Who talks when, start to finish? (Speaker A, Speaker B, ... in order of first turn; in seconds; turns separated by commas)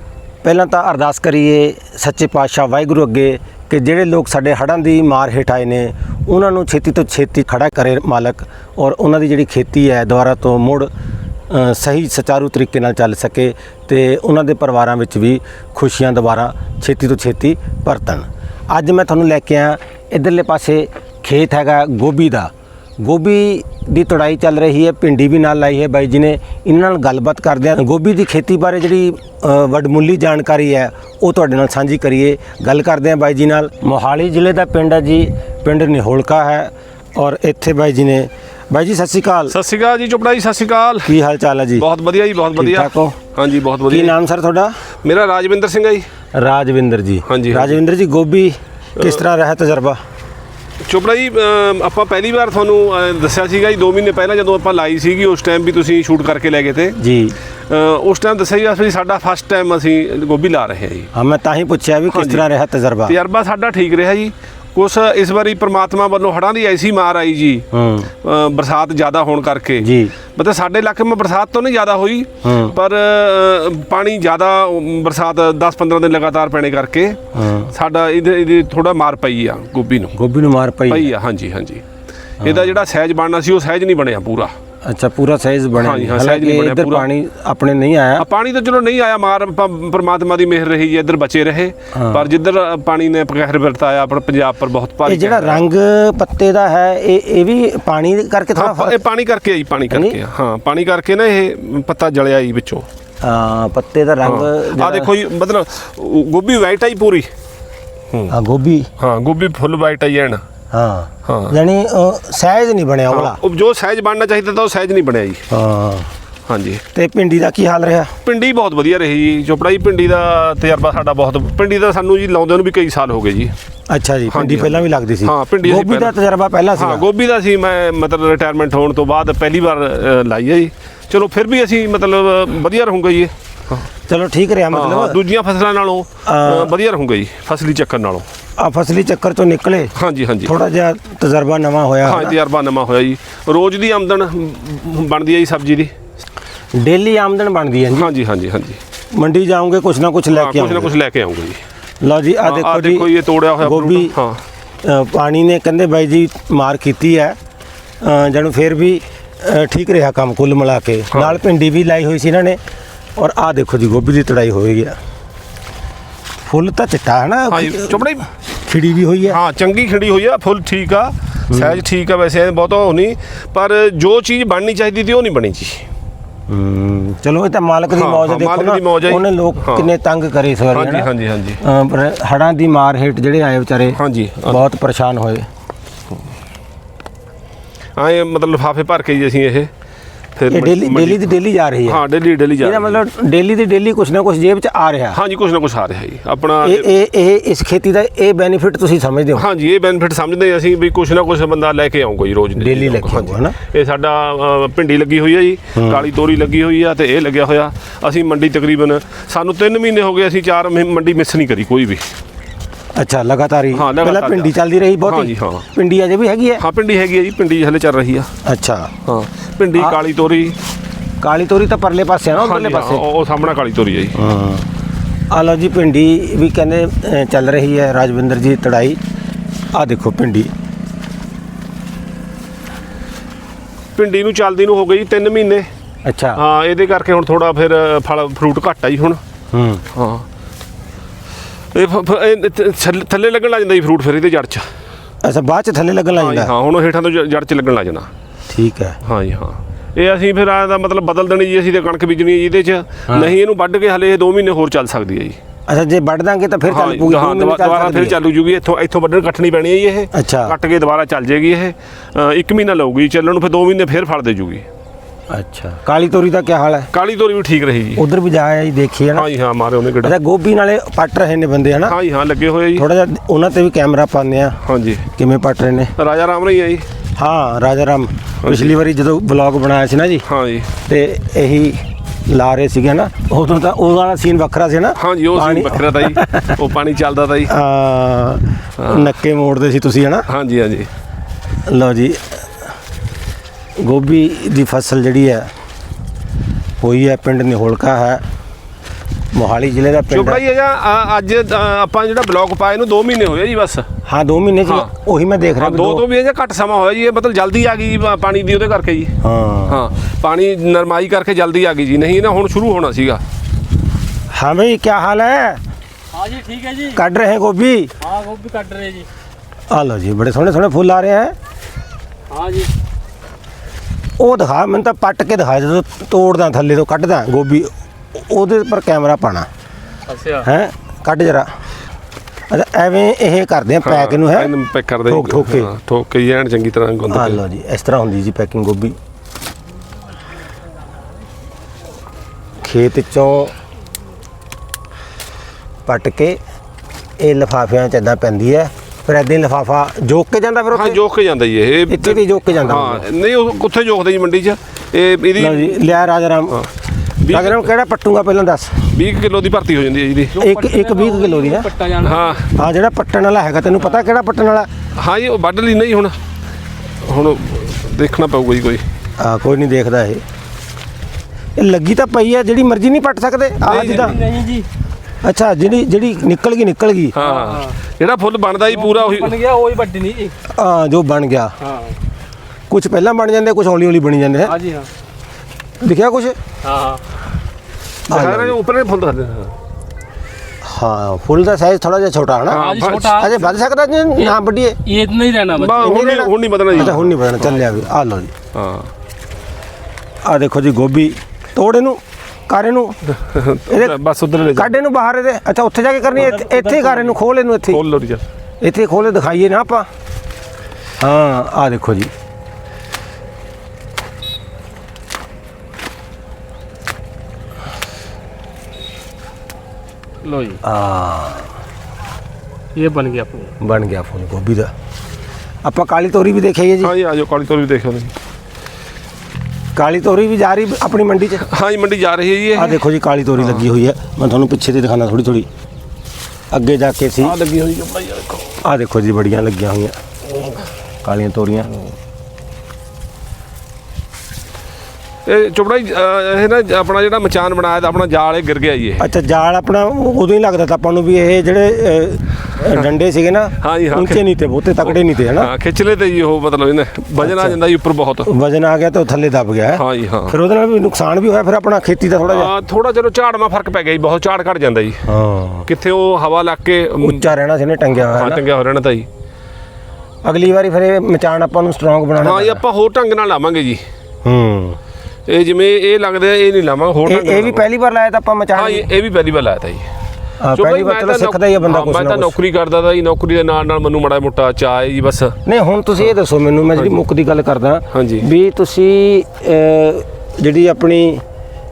Speaker A: 0.4-10.9, Speaker A: 11.5-39.5, Speaker B: 39.5-41.1, Speaker A: 41.0-41.9, Speaker B: 41.8-44.1, Speaker A: 42.5-43.2, Speaker A: 43.9-44.8, Speaker B: 45.0-46.1, Speaker A: 46.4-50.0, Speaker B: 47.2-47.8, Speaker B: 49.0-49.2, Speaker B: 50.8-57.0, Speaker A: 57.0-57.4, Speaker B: 57.7-61.1, Speaker A: 61.1-63.1, Speaker B: 62.1-62.4, Speaker B: 63.0-67.7, Speaker A: 67.7-68.1, Speaker B: 68.2-80.2, Speaker A: 69.8-70.1, Speaker A: 72.4-72.8, Speaker A: 77.3-77.7, Speaker A: 80.1-81.1, Speaker B: 80.9-81.8, Speaker A: 82.4-82.7, Speaker B: 82.4-84.5, Speaker A: 84.8-88.2, Speaker B: 85.8-87.1, Speaker B: 88.2-95.7, Speaker A: 91.9-92.3, Speaker A: 95.0-99.0, Speaker B: 98.5-102.8, Speaker A: 99.9-100.2, Speaker A: 103.2-105.1, Speaker B: 104.2-107.3, Speaker A: 108.3-108.9, Speaker B: 109.0-110.4, Speaker A: 110.7-113.4, Speaker B: 111.2-111.5, Speaker B: 113.1-115.5, Speaker A: 115.5-116.1, Speaker B: 116.5-116.8, Speaker A: 116.9-118.1, Speaker B: 118.2-123.5, Speaker A: 123.9-127.0, Speaker B: 124.3-126.1, Speaker B: 126.7-133.9, Speaker A: 134.1-135.2, Speaker B: 134.7-138.2, Speaker A: 136.2-136.7, Speaker A: 138.6-139.9, Speaker B: 139.9-140.5, Speaker A: 140.4-142.4, Speaker B: 142.0-145.9, Speaker A: 146.7-148.1, Speaker B: 147.9-148.8, Speaker A: 149.1-150.9, Speaker B: 150.3-151.6, Speaker A: 152.0-153.1, Speaker B: 152.4-154.4, Speaker A: 153.6-154.1, Speaker A: 154.8-157.3, Speaker A: 158.0-162.6, Speaker B: 161.1-161.4, Speaker A: 163.2-165.0, Speaker A: 166.4-168.0, Speaker B: 167.5-168.3, Speaker A: 168.6-169.4, Speaker B: 169.2-175.8, Speaker A: 171.5-171.8, Speaker A: 176.5-181.1, Speaker B: 177.9-179.9, Speaker B: 180.7-181.6, Speaker A: 181.6-185.4, Speaker B: 183.9-184.6, Speaker B: 188.0-189.7, Speaker B: 190.3-193.0, Speaker A: 190.5-192.0, Speaker A: 192.6-195.2, Speaker B: 195.1-196.9, Speaker A: 196.6-199.4, Speaker B: 199.3-212.1, Speaker A: 202.6-203.6, Speaker A: 205.7-206.1, Speaker A: 212.9-216.6, Speaker B: 213.7-215.7, Speaker B: 216.6-218.3, Speaker A: 218.4-218.9, Speaker B: 219.0-220.6, Speaker A: 221.2-223.1, Speaker B: 222.3-224.2, Speaker A: 224.1-224.7, Speaker A: 225.3-229.0, Speaker A: 229.7-230.5, Speaker B: 233.9-235.7, Speaker A: 236.0-236.4, Speaker B: 236.3-239.2, Speaker A: 239.5-239.8, Speaker B: 239.9-240.2, Speaker B: 241.7-244.7, Speaker A: 245.2-246.5, Speaker B: 246.1-248.1, Speaker A: 248.5-249.0, Speaker B: 249.0-255.4, Speaker A: 255.7-258.2, Speaker B: 256.7-264.6, Speaker A: 260.1-260.5, Speaker A: 265.3-266.9, Speaker B: 266.9-268.0, Speaker A: 267.9-269.3, Speaker B: 269.1-270.1, Speaker A: 270.0-271.9, Speaker B: 271.9-272.9, Speaker A: 272.8-274.6, Speaker B: 274.6-275.1, Speaker A: 275.1-275.9, Speaker B: 275.9-276.9, Speaker A: 277.2-280.2, Speaker B: 278.4-278.8, Speaker B: 280.2-280.7, Speaker A: 280.9-286.6, Speaker B: 284.9-287.5, Speaker A: 287.5-290.3, Speaker B: 288.8-289.1, Speaker B: 290.3-290.9, Speaker A: 291.7-292.5, Speaker A: 293.8-295.5, Speaker A: 296.8-298.2, Speaker A: 299.3-300.4, Speaker B: 300.1-303.9, Speaker A: 304.0-306.0, Speaker B: 304.6-304.9, Speaker B: 305.6-313.2, Speaker A: 309.2-309.8, Speaker A: 314.3-315.6, Speaker C: 316.1-317.0, Speaker A: 316.9-317.9, Speaker C: 318.0-319.1, Speaker A: 319.7-321.3, Speaker C: 322.3-322.7, Speaker A: 324.2-329.5, Speaker C: 330.1-330.4, Speaker A: 330.4-331.5, Speaker A: 332.5-334.5, Speaker B: 333.8-337.4, Speaker A: 335.1-335.7, Speaker A: 337.1-338.9, Speaker A: 342.6-343.5, Speaker A: 345.9-346.4, Speaker A: 347.2-351.0, Speaker B: 350.7-355.9, Speaker A: 351.9-353.1, Speaker A: 355.4-356.7, Speaker B: 357.2-357.7, Speaker A: 357.2-358.9, Speaker B: 358.9-360.4, Speaker C: 360.4-362.3, Speaker A: 360.4-361.7, Speaker B: 362.0-362.5, Speaker A: 362.5-364.7, Speaker B: 364.9-366.2, Speaker B: 367.0-368.9, Speaker A: 369.2-370.2, Speaker A: 371.6-374.2, Speaker B: 373.7-374.3, Speaker C: 373.7-374.7, Speaker A: 375.2-377.1, Speaker B: 377.1-379.5, Speaker C: 377.2-377.7, Speaker C: 378.8-380.3, Speaker A: 380.5-381.5, Speaker C: 381.6-381.9, Speaker A: 382.7-384.6, Speaker C: 384.5-384.9, Speaker A: 385.8-386.4, Speaker C: 386.6-387.0, Speaker B: 388.1-389.5, Speaker A: 388.1-388.6, Speaker A: 390.6-394.8, Speaker B: 392.5-393.4, Speaker C: 392.5-393.5, Speaker C: 394.2-396.1, Speaker B: 395.5-397.3, Speaker A: 395.8-398.3, Speaker B: 398.5-398.9, Speaker A: 400.2-403.0, Speaker B: 403.1-404.8, Speaker A: 403.7-403.9, Speaker A: 404.6-407.8, Speaker C: 406.3-407.1, Speaker B: 407.7-408.2, Speaker A: 408.6-409.9, Speaker A: 411.0-412.1, Speaker C: 420.2-420.6, Speaker A: 420.6-421.4, Speaker C: 422.8-423.5, Speaker A: 423.6-424.7, Speaker A: 425.6-426.9, Speaker B: 426.8-428.1, Speaker A: 429.8-431.4, Speaker B: 431.4-432.8, Speaker A: 432.5-435.5, Speaker A: 436.5-437.4, Speaker B: 437.2-438.6, Speaker A: 438.6-439.9, Speaker A: 441.0-441.7, Speaker B: 445.2-449.1, Speaker A: 449.0-455.5, Speaker B: 453.6-454.2, Speaker B: 454.8-458.3, Speaker A: 457.2-457.6, Speaker A: 458.2-462.5, Speaker B: 459.7-460.4, Speaker B: 462.2-465.1, Speaker A: 465.0-465.7, Speaker B: 465.7-467.3, Speaker A: 467.0-468.4, Speaker B: 467.9-469.1, Speaker A: 470.2-472.6, Speaker B: 472.2-473.8, Speaker A: 474.2-474.8, Speaker B: 475.2-477.6, Speaker A: 477.0-478.9, Speaker B: 478.5-479.9, Speaker A: 480.4-482.4, Speaker B: 480.5-485.4, Speaker A: 485.4-491.2, Speaker B: 487.9-488.3